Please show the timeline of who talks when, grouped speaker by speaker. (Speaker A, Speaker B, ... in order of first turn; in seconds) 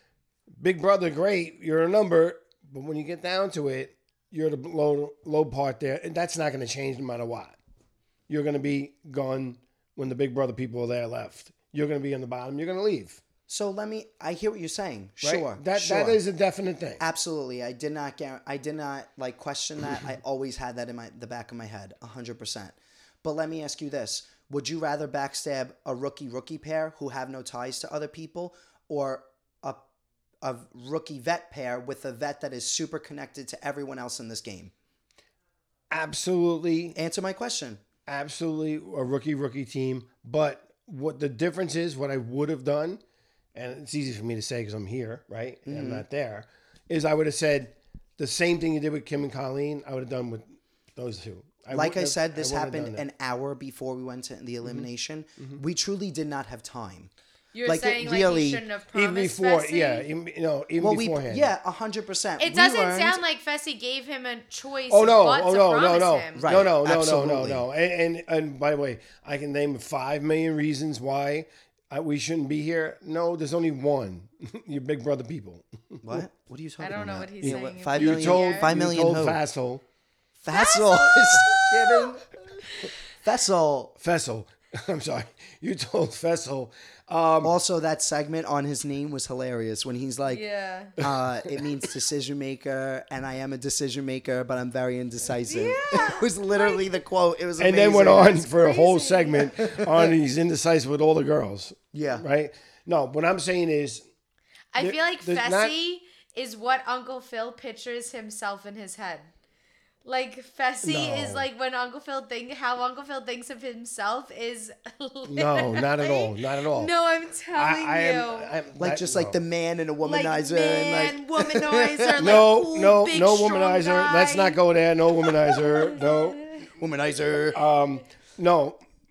Speaker A: 0.6-7.6, 8.3-13.2, 15.2-17.0, 35.9-37.0, 38.1-43.0, 43.5-53.0, 58.9-61.5, 64.9-76.2, 77.4-79.8, 84.0-87.5, 97.6-104.0, 104.8-105.7, 110.8-111.5, 115.3-116.9, 117.5-119.4, 122.2-126.4, 127.5-128.8
Speaker B: 13.5-16.2, 17.0-29.8, 30.4-34.7, 37.0-37.8, 45.7-46.0, 51.7-57.1, 57.6-58.6, 60.8-63.2, 66.4-67.7, 76.0-79.4, 80.4-82.3, 83.2-84.0, 87.4-90.4, 91.0-98.5, 99.6-100.1, 101.9-102.2, 118.8-122.4, 126.7-127.6
Speaker C: 57.5-60.1, 62.4-66.5, 76.8-78.7, 80.5-82.1, 82.6-82.9, 90.3-91.0, 95.5-96.9, 98.6-99.6, 104.7-109.3, 110.0-118.5, 120.0-124.6, 125.4-126.6